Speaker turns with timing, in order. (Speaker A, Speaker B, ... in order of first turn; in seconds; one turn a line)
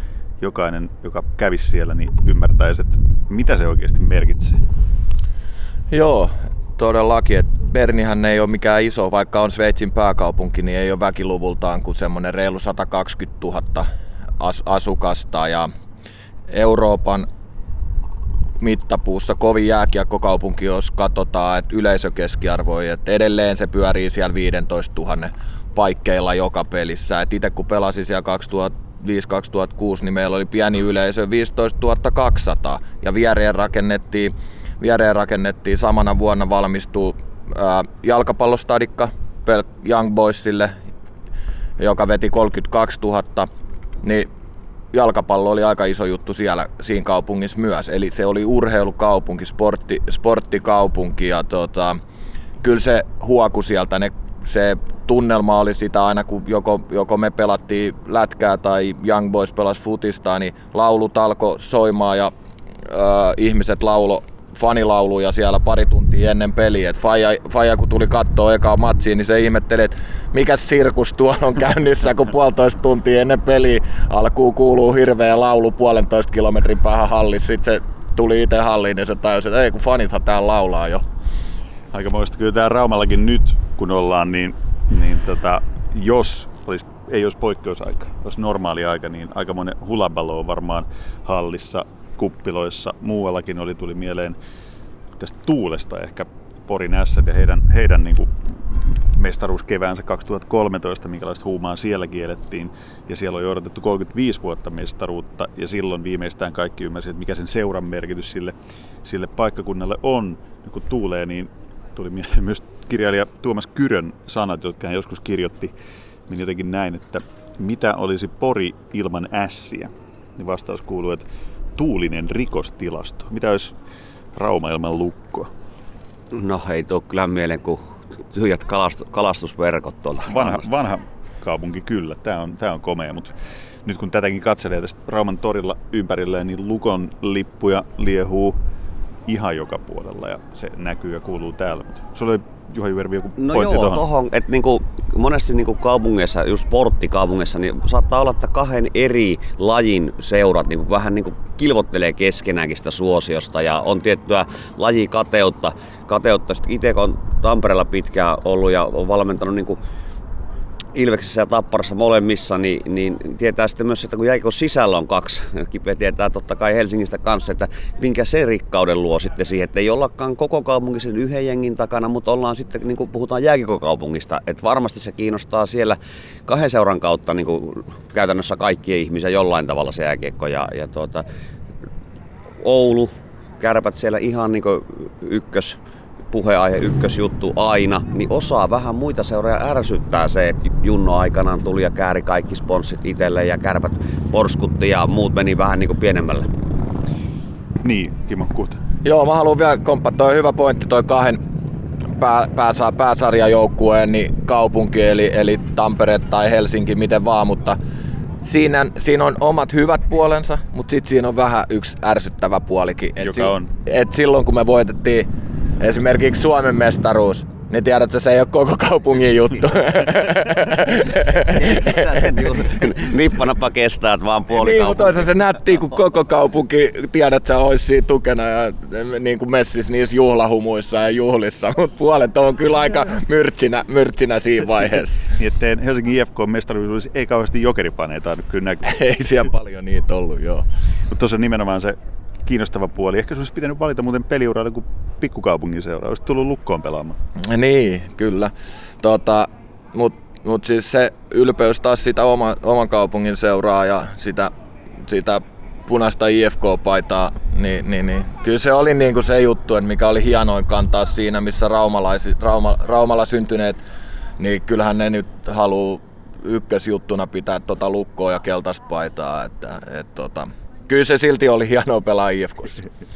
Speaker A: 0.4-4.6
Speaker B: 5.9-13.9
Speaker B: 14.4-15.7
Speaker B: 16.5-17.3
Speaker B: 18.6-40.8
Speaker B: 41.8-43.5
Speaker B: 44.0-44.3
Speaker B: 44.9-52.0
Speaker B: 52.6-62.3
Speaker B: 62.9-81.0
Speaker A: 81.9-94.4
Speaker A: 95.2-115.7
Speaker A: 116.3-123.8
Speaker A: 124.3-125.5
Speaker C: 126.3-130.7
Speaker A: 130.3-138.6
Speaker A: 139.3-144.1
Speaker C: 143.4-159.8
Speaker C: 160.9-181.2
Speaker C: 182.6-185.8
Speaker C: 186.3-196.5
Speaker A: 197.8-198.8
Speaker B: 199.0-201.4
Speaker B: 202.2-207.8
Speaker B: 208.4-215.3
Speaker A: 213.2-213.7
Speaker B: 215.8-223.1
Speaker C: 221.1-225.3
Speaker B: 224.6-235.2
Speaker A: 235.3-239.0
Speaker B: 238.9-240.7
Speaker A: 241.1-247.2
Speaker B: 247.4-254.5
Speaker B: 255.0-263.8
Speaker B: 264.4-272.8